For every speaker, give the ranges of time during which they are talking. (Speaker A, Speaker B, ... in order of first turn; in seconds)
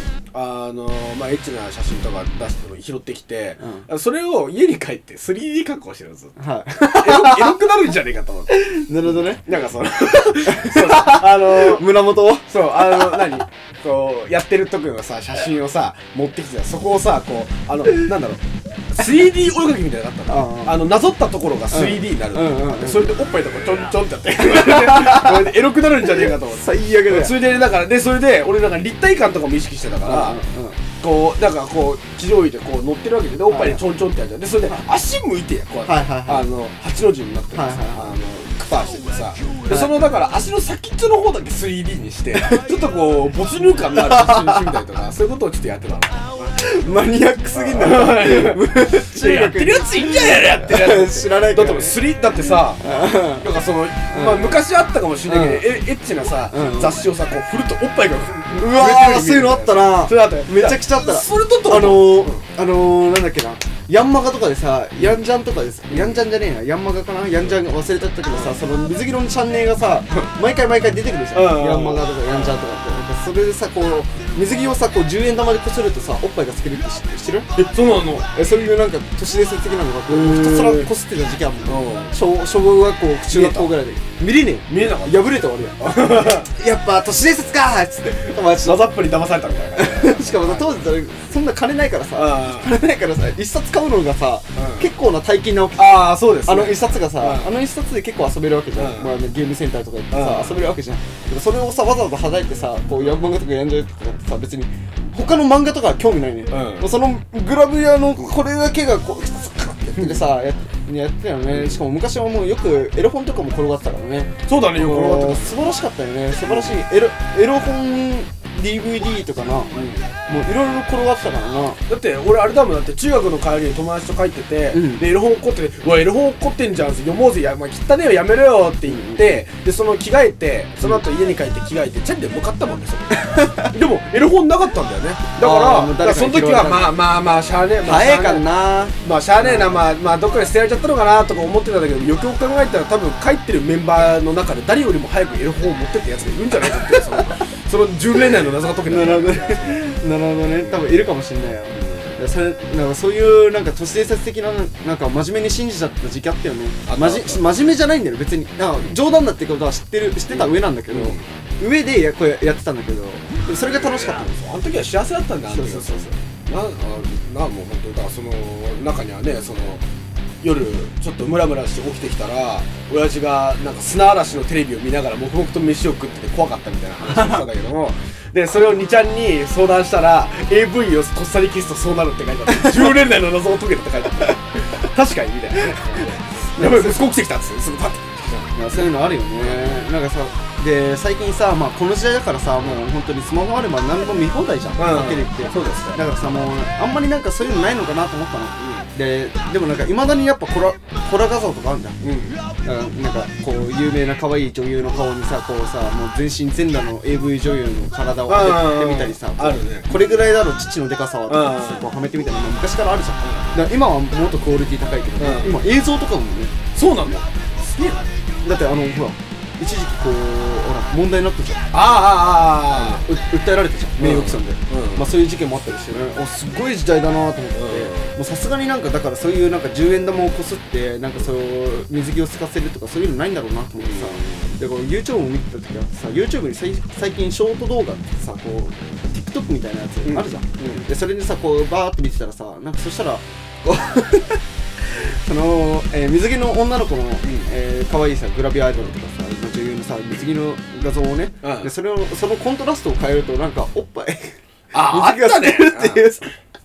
Speaker A: 0.3-30.4, 31.0-46.6, 47.5-62.5, 65.9-66.2, 71.3-72.6, 77.6-78.3, 80.1-80.9, 81.7-82.2, 83.3-83.7, 84.7-86.5, 88.2-90.9, 92.2-92.8, 94.6-94.9, 95.8-97.5, 98.8-99.2, 100.1-100.7, 106.5-106.9, 110.0-110.2, 111.5-111.8, 114.5-115.6, 116.4-116.7, 119.7-120.1, 121.9-149.8, 150.6-151.0, 151.7-152.2, 156.9-157.6, 160.3-161.3, 163.8-169.8, 170.4-189.8, 194.8-196.0, 198.6-198.8, 202.0-202.4, 208.3-210.3, 211.3-211.9, 213.2-213.6, 215.2-215.7, 216.7-218.1, 221.7-223.0, 224.0-225.1, 227.5-228.1, 233.8-234.6, 240.1-240.9, 247.2-247.5, 251.4-251.7, 254.7-256.1
Speaker B: 3.6-3.9, 6.4-7.6, 8.5-9.5, 10.4-13.4, 20.3-21.0, 21.7-23.2, 24.4-25.5, 26.4-27.4, 30.0-30.8, 33.5-33.8, 35.9-36.5, 37.5-38.1, 39.7-40.0, 44.0-44.6, 46.6-54.6, 55.2-55.8, 56.5-57.0, 58.6-77.6, 78.3-88.9, 89.8-119.7, 120.3-121.8, 124.7-125.1, 128.9-129.4, 133.2-133.7, 135.4-137.0, 137.8-139.9, 148.9-164.4, 165.5-166.1, 186.6-187.2, 188.5-202.0, 202.6-216.5, 218.4-221.7, 222.7-256.3